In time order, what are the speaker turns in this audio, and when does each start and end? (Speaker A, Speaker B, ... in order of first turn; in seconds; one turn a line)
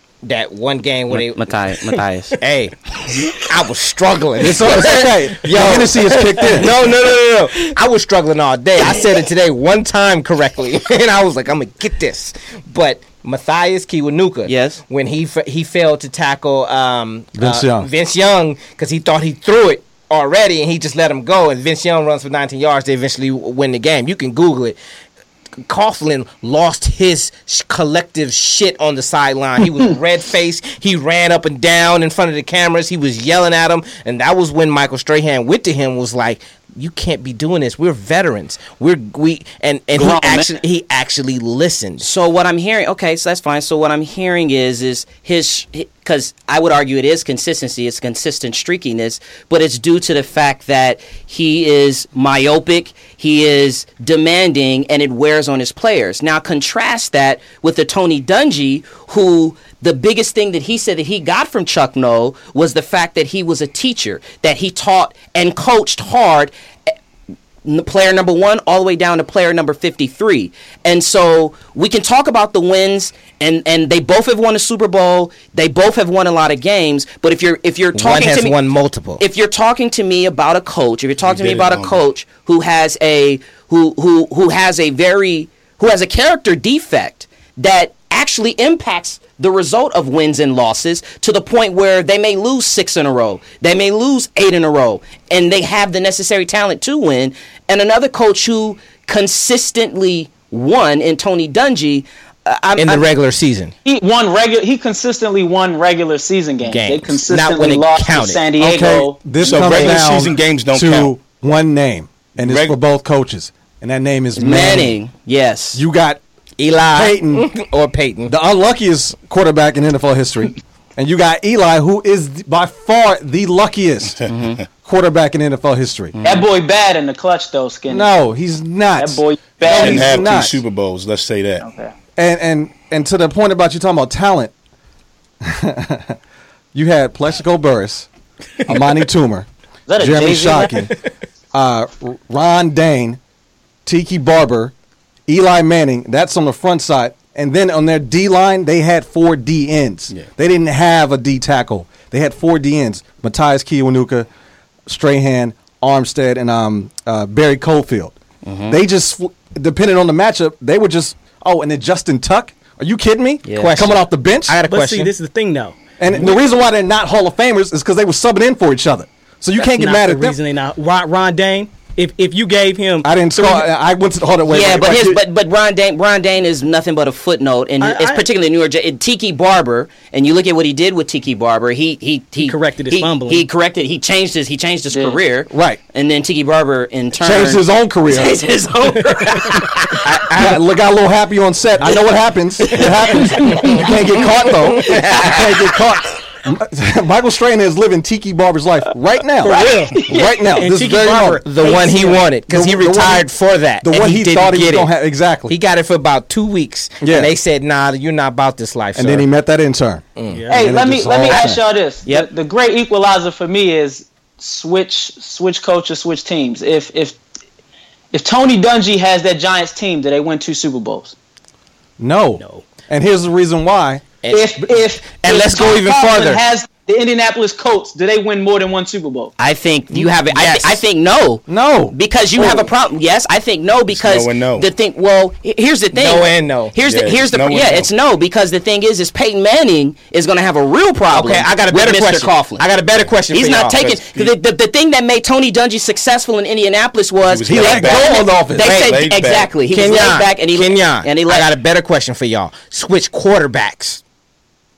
Speaker A: 0.2-1.6
Speaker B: 1.1-2.4
Speaker A: 2.4-24.8
Speaker C: 4.4-6.7
Speaker B: 14.4-14.8
Speaker C: 17.4-17.9
Speaker A: 25.6-42.1
Speaker D: 40.1-40.4
Speaker B: 42.0-66.5
Speaker B: 67.6-78.5
Speaker A: 77.9-79.2
Speaker B: 79.2-103.1
Speaker E: 81.2-82.0
Speaker A: 102.8-103.7
Speaker D: 103.8-109.9
Speaker A: 106.7-108.4
Speaker C: 108.6-115.0
Speaker E: 109.4-111.1
Speaker E: 112.4-112.8
Speaker B: 114.4-115.8
Speaker C: 115.7-116.2
Speaker A: 116.6-118.3
Speaker C: 116.9-117.5
Speaker C: 118.3-124.2
Speaker B: 124.3-124.6
Speaker C: 124.8-126.1
Speaker B: 126.2-126.5
Speaker D: 126.2-128.1
Speaker C: 127.9-130.6
Speaker D: 129.0-130.2
Speaker E: 129.6-131.7
Speaker D: 131.6-131.9
Speaker C: 132.2-134.5
Speaker C: 135.4-136.2
Speaker C: 136.7-138.1
Speaker C: 138.7-140.9
Speaker D: 139.9-140.9
Speaker C: 141.5-143.2
Speaker C: 143.8-144.7
Speaker C: 145.3-154.3
Speaker C: 154.9-158.1
Speaker B: 158.4-158.8
Speaker C: 158.7-164.6
Speaker B: 163.4-163.8
Speaker A: 163.6-165.1
Speaker F: 164.6-165.8
Speaker C: 166.0-170.4
Speaker F: 169.6-173.7
Speaker C: 173.0-175.2
Speaker B: 174.5-190.2
Speaker F: 177.8-178.2
Speaker F: 182.4-183.5
Speaker D: 184.9-185.2
Speaker C: 185.5-185.8
Speaker C: 187.2-188.4
Speaker C: 190.1-201.4
Speaker B: 192.7-192.9
Speaker B: 194.9-195.6
Speaker F: 199.4-202.3
Speaker A: 201.4-204.9
Speaker C: 202.5-203.3
Speaker C: 203.8-205.6
Speaker A: 205.5-209.3
Speaker C: 207.0-207.3
Speaker C: 208.9-211.6
Speaker A: 210.2-210.4
Speaker F: 210.3-210.7
Speaker D: 210.5-217.2
Speaker D: 218.1-221.1
Speaker C: 222.0-224.1
Speaker A: 224.2-226.4
Speaker D: 224.3-229.3
Speaker B: 229.4-242.6
Speaker A: 230.3-230.8
Speaker C: 231.5-231.9
Speaker E: 233.9-234.7
Speaker A: 235.9-236.7
Speaker E: 236.8-237.9
Speaker A: 241.1-243.8
Speaker B: 243.3-251.5
Speaker E: 243.8-244.3
Speaker E: 247.2-249.5
Speaker C: 247.4-248.8
Speaker A: 249.7-254.0